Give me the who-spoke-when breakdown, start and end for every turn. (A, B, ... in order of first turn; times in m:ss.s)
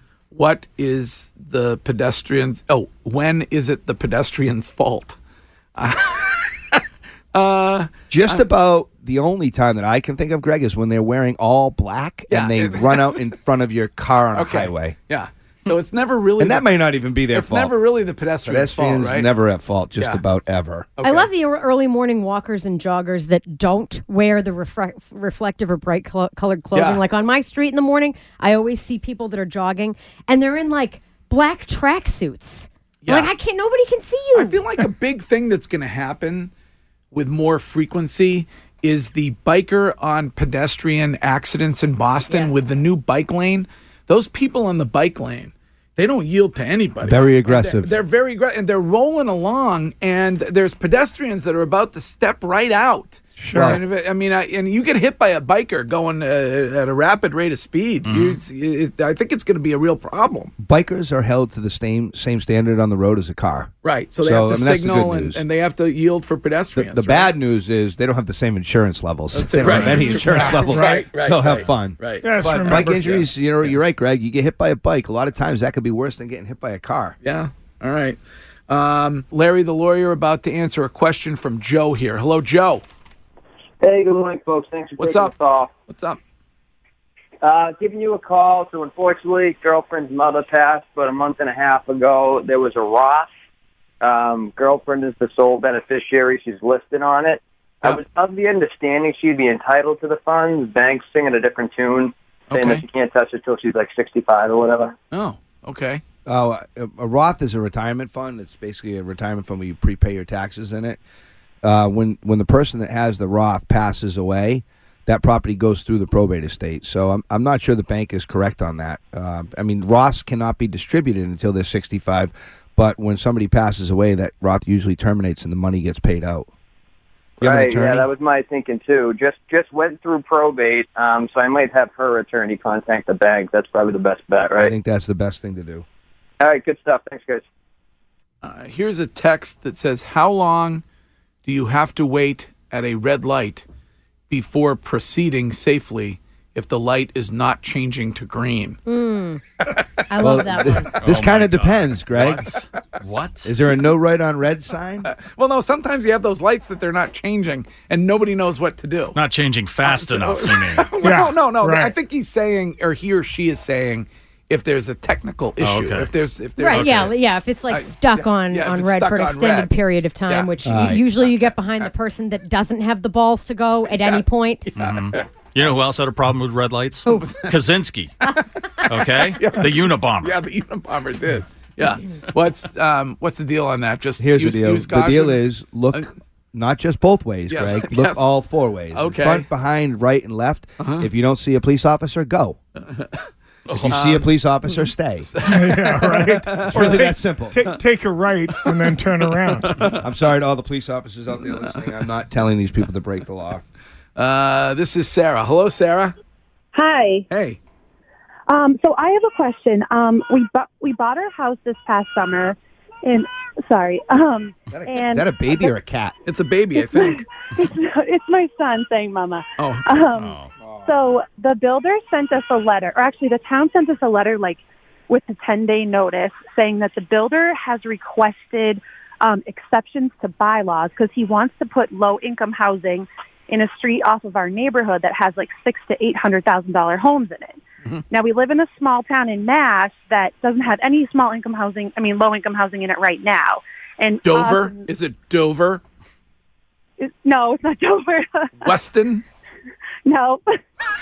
0:00.3-0:05.2 A
0:05.8-0:06.8 A
0:07.3-0:08.4 A
0:08.1-0:15.0 B
0:12.3-0:13.3 A
0:14.3-0:16.7 A
0:16.4-0:17.7 B
0:17.3-0:19.3 A
0:18.4-0:20.9 B
0:21.0-0:21.3 A
0:21.0-0:34.6 C
0:26.7-0:27.0 A
0:33.0-0:33.3 A
0:34.4-0:36.5 A
0:37.1-1:00.5 A
0:47.0-0:47.9 B
0:53.4-0:53.8 D
0:53.5-0:53.8 B
0:58.1-0:58.4 E
1:00.6-1:05.4 B
1:03.8-1:07.3 A
1:06.8-1:17.2 B
1:09.3-1:13.7 A
1:09.7-1:11.1 D
1:12.2-1:13.2 D
1:17.2-1:22.8 A
1:23.8-1:25.7 F
1:25.0-1:26.2 A
1:27.4-1:33.3 F
1:34.0-1:45.0 F
1:42.5-1:42.8 A
1:45.1-1:46.0 A
1:46.3-1:51.0 B
1:51.6-2:06.5 B
2:07.4-2:14.7 F
2:07.4-2:08.1 B
2:14.6-2:15.8 B
2:16.4-2:17.5 F
2:18.4-2:20.8 A
2:21.4-2:23.6 A
2:24.3-2:28.8 A
2:28.9-2:29.4 C
2:30.1-2:31.0 C
2:30.2-2:32.6 B
2:30.9-2:33.6 E
2:33.4-2:35.1 B
2:35.0-2:39.2 A
2:39.1-2:41.0 E
2:39.8-2:47.1 A
2:41.0-2:41.9 D
2:45.6-2:46.1 E
2:46.6-2:54.7 C
2:46.7-2:47.1 E
2:47.7-2:49.7 A
2:50.6-2:51.0 B
2:53.9-2:54.2 A
2:54.8-2:58.1 E
2:54.8-2:55.2 A
2:57.1-2:57.4 C
2:58.9-3:00.4 E
2:59.4-3:06.1 A
3:04.2-3:12.6 B
3:07.5-3:08.2 A
3:08.9-3:09.5 A
3:10.8-3:11.1 A
3:12.8-3:13.2 A
3:13.7-3:13.9 E
3:13.8-3:15.3 B
3:13.9-3:14.2 A
3:15.3-3:17.8 A
3:15.4-3:19.9 D
3:16.6-3:17.6 B
3:18.5-3:20.1 A
3:20.0-3:23.6 B
3:21.5-3:21.9 A
3:24.2-3:26.2 A
3:26.7-3:27.3 G
3:27.3-3:27.6 A
3:28.5-3:35.7 G
3:34.7-3:36.2 B
3:36.3-3:37.3 A
3:36.8-3:57.6 G
3:39.6-3:39.8 A
3:40.2-3:40.5 E
3:40.6-3:40.9 B
3:58.1-4:04.9 G
4:04.2-4:05.8 A
4:07.0-4:08.8 G
4:08.6-4:09.2 A
4:10.1-4:10.4 G